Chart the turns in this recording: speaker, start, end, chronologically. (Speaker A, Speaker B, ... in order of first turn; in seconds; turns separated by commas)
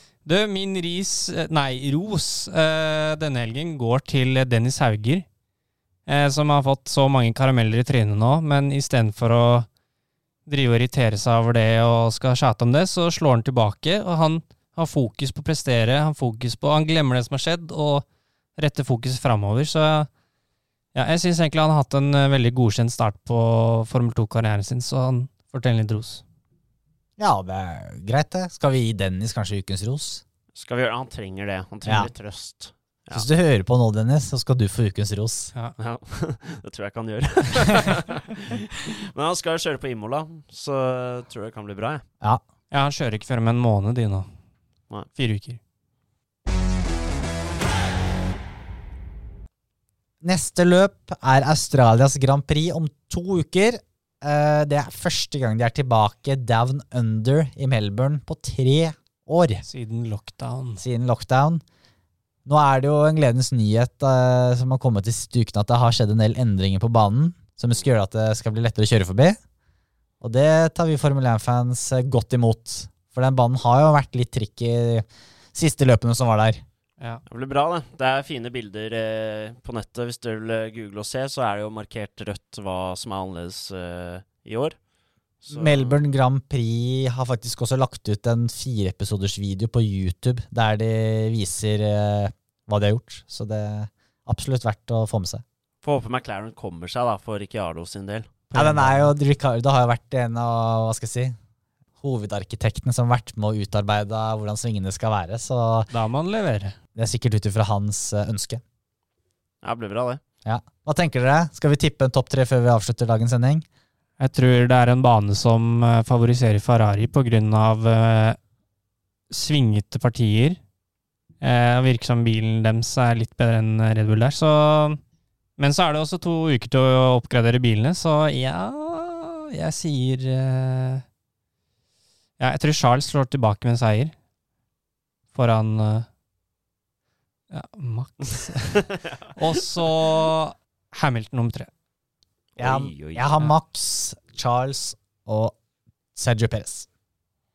Speaker A: 0.2-5.2, Speaker A: 6.0-9.7, Speaker A: 10.4-20.1, Speaker A: 20.9-26.2, Speaker B: 27.2-30.2, Speaker C: 30.5-33.3, Speaker B: 31.8-32.1, Speaker B: 33.1-35.5, Speaker C: 35.8-42.0, Speaker A: 42.7-44.3, Speaker A: 45.1-45.6, Speaker B: 50.2-59.6, Speaker A: 59.6-60.8, Speaker B: 60.8-61.6, Speaker B: 62.5-69.4, Speaker B: 70.2-76.6, Speaker C: 77.3-84.7, Speaker C: 85.4-86.0, Speaker B: 85.5-95.4, Speaker C: 95.8-98.3, Speaker A: 98.5-99.1, Speaker B: 98.5-101.3, Speaker B: 102.0-105.9, Speaker A: 105.9-106.8, Speaker B: 107.0-108.6, Speaker C: 109.6-110.2, Speaker B: 110.4-113.6, Speaker A: 114.2-118.4, Speaker A: 119.3-120.6, Speaker A: 121.4-125.0, Speaker A: 125.6-131.0, Speaker A: 132.4-134.1, Speaker A: 135.3-136.1, Speaker A: 137.5-141.7, Speaker C: 142.6-143.4, Speaker B: 142.6-145.6, Speaker B: 146.1-146.9